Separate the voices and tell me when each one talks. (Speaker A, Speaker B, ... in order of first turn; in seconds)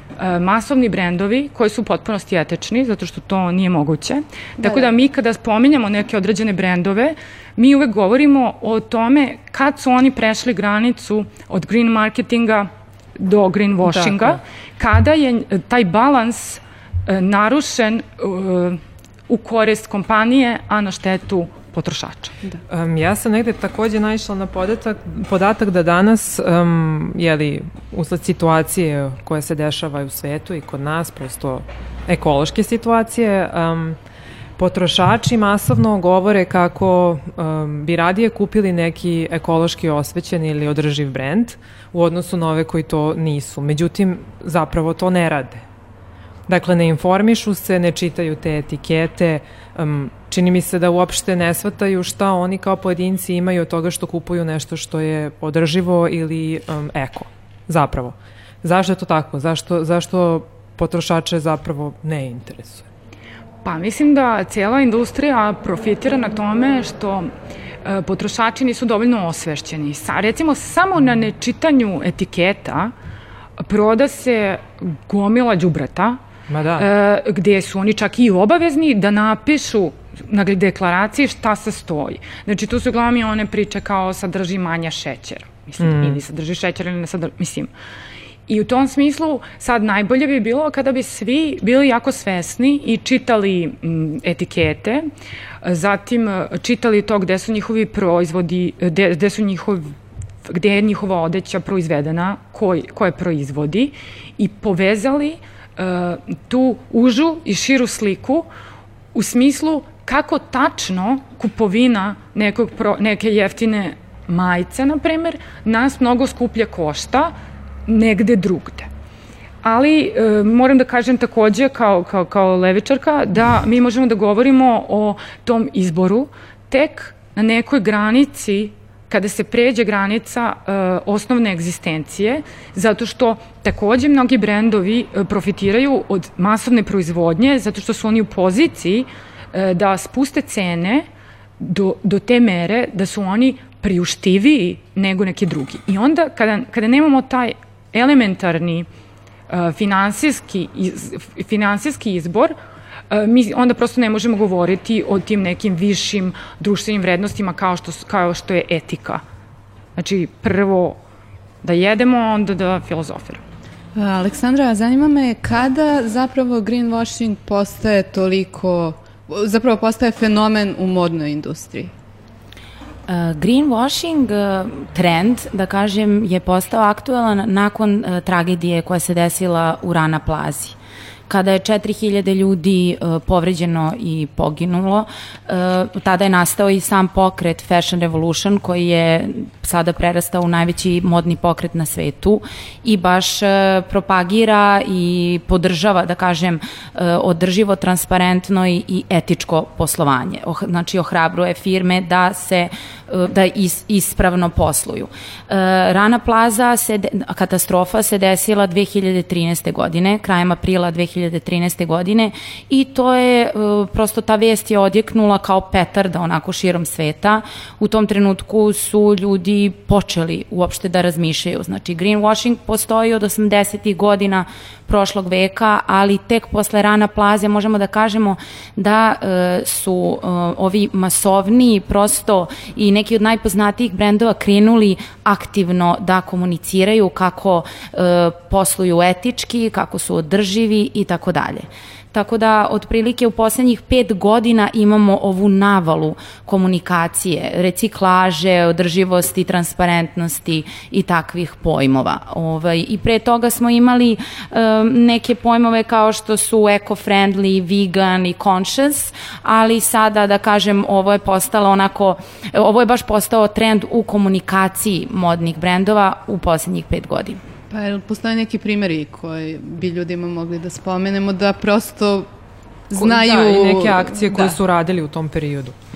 Speaker A: 0.2-22.4, 63.6-67.3, 67.8-72.9, 73.6-76.2, 76.8-87.7, 88.5-95.1, 95.6-99.9, 100.5-108.5, 109.1-117.3, 117.9-118.9, 119.6-141.1, 141.6-148.9, 149.5-152.5, 153.1-159.2, 160.0-161.0, 161.6-163.4
Speaker B: 4.6-4.9, 163.9-171.9, 267.7-272.3, 272.9-274.6
Speaker C: 13.8-14.4, 22.7-34.0, 34.6-45.6, 46.5-62.9, 76.5-76.9, 85.8-86.2, 273.0-275.8
Speaker D: 173.1-180.8, 181.3-267.4